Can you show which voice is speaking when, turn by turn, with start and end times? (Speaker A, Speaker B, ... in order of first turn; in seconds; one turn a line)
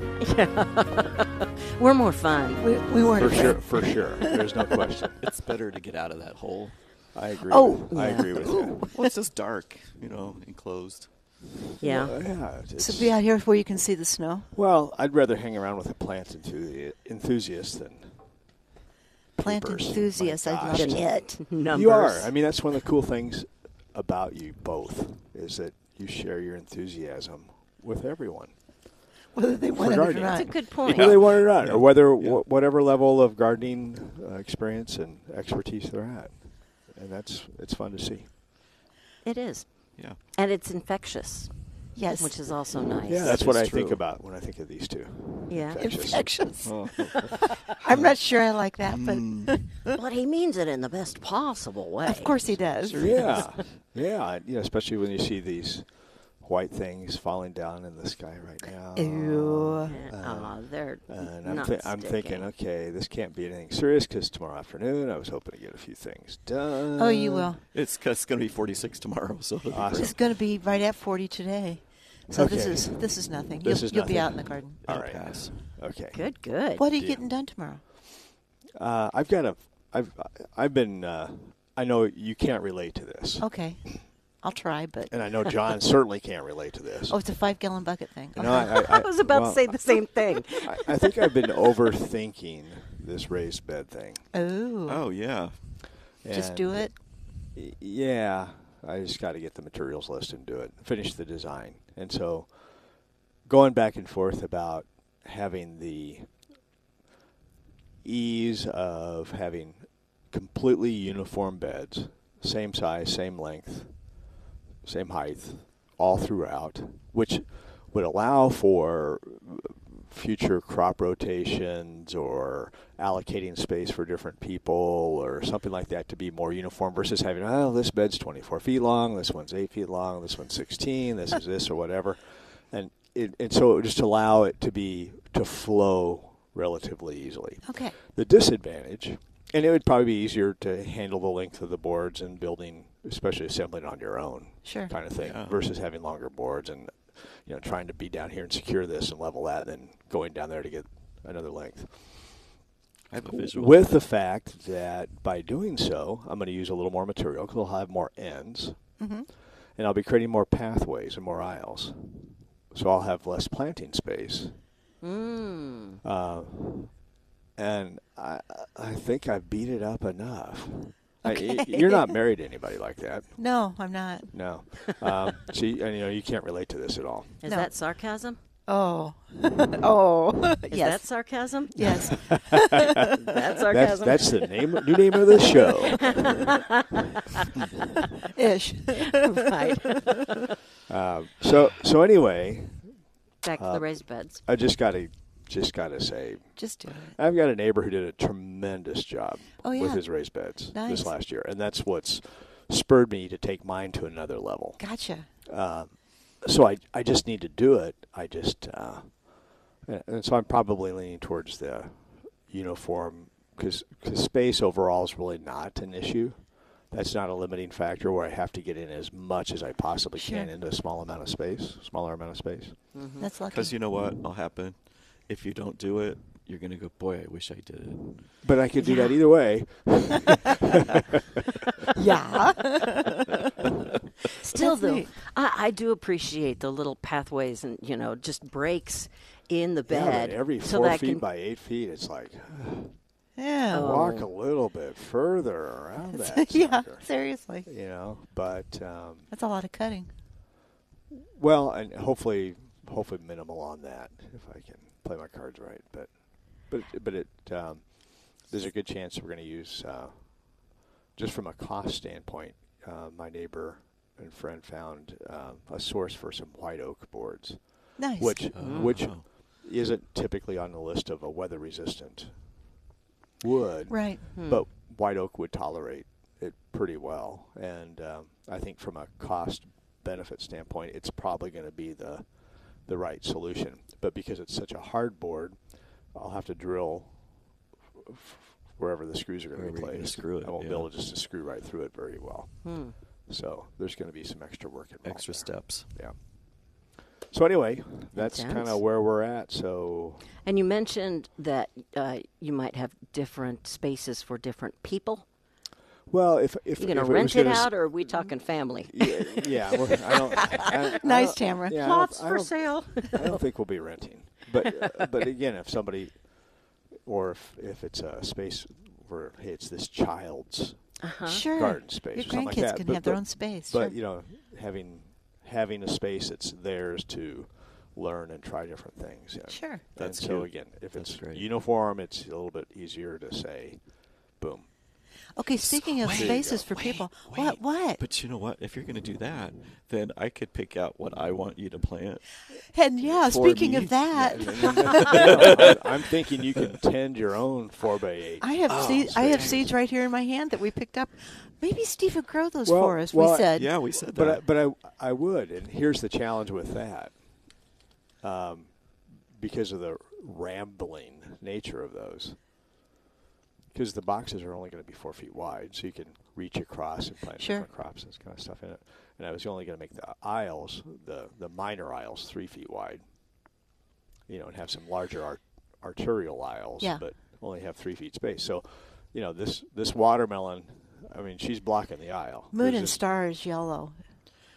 Speaker A: 0.2-2.6
Speaker B: 2.6-4.8
Speaker C: 3.1-5.2
Speaker D: 5.2-6.8
Speaker C: 7.1-8.8
Speaker B: 7.5-9.1
Speaker A: 7.9-8.3
Speaker D: 8.9-11.1
Speaker C: 11.8-13.2
Speaker A: 11.8-12.2
Speaker B: 12.8-14.5
Speaker C: 14.5-18.1
Speaker C: 19.4-28.5
Speaker B: 19.4-21.4
Speaker A: 20.7-22.3
Speaker B: 29.3-30.5
Speaker C: 29.8-38.3
Speaker A: 30.3-31.2
Speaker D: 30.9-32.4
Speaker A: 39.2-44.0
Speaker B: 42.0-42.6
Speaker C: 43.1-46.4
Speaker A: 45.5-45.8
Speaker B: 45.8-50.0
Speaker D: 46.6-48.1
Speaker D: 48.8-49.6
Speaker A: 49.9-52.4
Speaker B: 52.0-53.5
Speaker D: 52.8-53.7
Speaker C: 53.0-67.5
Speaker B: 59.0-60.0
Speaker A: 59.9-62.5
Speaker B: 67.0-67.6
Speaker D: 67.7-70.2
Speaker C: 69.7-70.1
Speaker B: 69.9-74.8
Speaker C: 72.3-77.3
Speaker D: 74.8-75.7
Speaker A: 76.1-76.8
Speaker B: 76.8-77.8
Speaker C: 78.8-84.0
Speaker B: 83.4-85.1
Speaker C: 85.1-87.2
Speaker B: 87.1-89.0
Speaker C: 88.4-90.0
Speaker A: 88.5-91.0
Speaker C: 90.6-94.3
Speaker B: 94.3-95.0
Speaker D: 94.9-95.8
Speaker C: 96.2-102.6
Speaker B: 96.3-96.9
Speaker C: 103.5-106.3
Speaker C: 108.0-114.2
Speaker C: 114.8-152.5
Speaker B: 137.7-137.9
Speaker B: 144.6-144.9
Speaker D: 145.2-145.6
Speaker D: 153.1-154.1
Speaker C: 153.4-159.0
Speaker B: 159.0-159.3
Speaker C: 159.7-164.6
Speaker A: 165.0-166.0
Speaker C: 166.0-167.0
Speaker C: 167.6-173.4
Speaker B: 171.2-172.2
Speaker B: 173.4-174.3
Speaker C: 174.3-177.4
Speaker A: 177.4-178.4
Speaker B: 177.4-177.7
Speaker B: 178.7-181.1
Speaker A: 180.7-182.2
Speaker B: 181.7-183.1
Speaker C: 181.8-186.3
Speaker A: 182.9-184.6
Speaker A: 185.9-187.5
Speaker B: 188.2-189.4
Speaker A: 188.9-190.4
Speaker C: 190.9-193.0
Speaker A: 193.4-194.4
Speaker C: 193.6-204.8
Speaker B: 196.6-197.2
Speaker B: 199.6-201.1
Speaker B: 204.8-205.3
Speaker C: 205.4-222.9
Speaker B: 220.2-220.5
Speaker A: 222.9-223.3
Speaker B: 223.2-223.8
Speaker D: 223.5-228.4
Speaker C: 228.4-231.0
Speaker B: 228.8-229.2
Speaker B: 231.9-233.4
Speaker B: 234.4-235.1
Speaker A: 234.4-241.2
Speaker C: 239.9-243.0
Speaker B: 243.4-243.9
Speaker A: 243.7-244.3
Speaker C: 243.7-247.1
Speaker B: 246.1-247.7
Speaker C: 247.7-249.3
Speaker B: 249.3-250.1
Speaker C: 251.1-272.6
Speaker B: 268.0-268.4
Speaker D: 268.5-269.2
Speaker A: 268.6-269.0
Speaker C: 273.4-287.2
Speaker B: 273.9-274.3
Speaker A: 274.3-274.6
Speaker C: 288.0-296.2
Speaker D: 289.5-290.9
Speaker A: 292.6-293.0
Speaker D: 295.0-295.9
Speaker C: 296.8-300.3
Speaker A: 298.1-298.8
Speaker A: 300.4-305.3
Speaker C: 306.1-307.7
Speaker A: 306.8-310.9
Speaker C: 308.9-320.9
Speaker B: 311.0-311.9
Speaker A: 311.7-313.4
Speaker A: 321.0-321.4
Speaker B: 321.2-323.9
Speaker C: 321.5-333.8
Speaker B: 329.5-329.8
Speaker D: 330.0-331.5
Speaker C: 334.3-334.7
Speaker B: 335.4-338.0
Speaker D: 335.6-342.3
Speaker C: 336.1-336.6
Speaker B: 342.7-345.8
Speaker D: 343.3-345.8
Speaker C: 343.7-349.6
Speaker B: 348.4-353.7
Speaker D: 348.7-349.7
Speaker C: 352.7-357.2
Speaker D: 353.5-354.4
Speaker C: 358.2-362.4
Speaker C: 363.7-373.0
Speaker B: 367.4-367.7
Speaker C: 374.3-383.0
Speaker B: 376.8-377.1
Speaker B: 382.5-384.0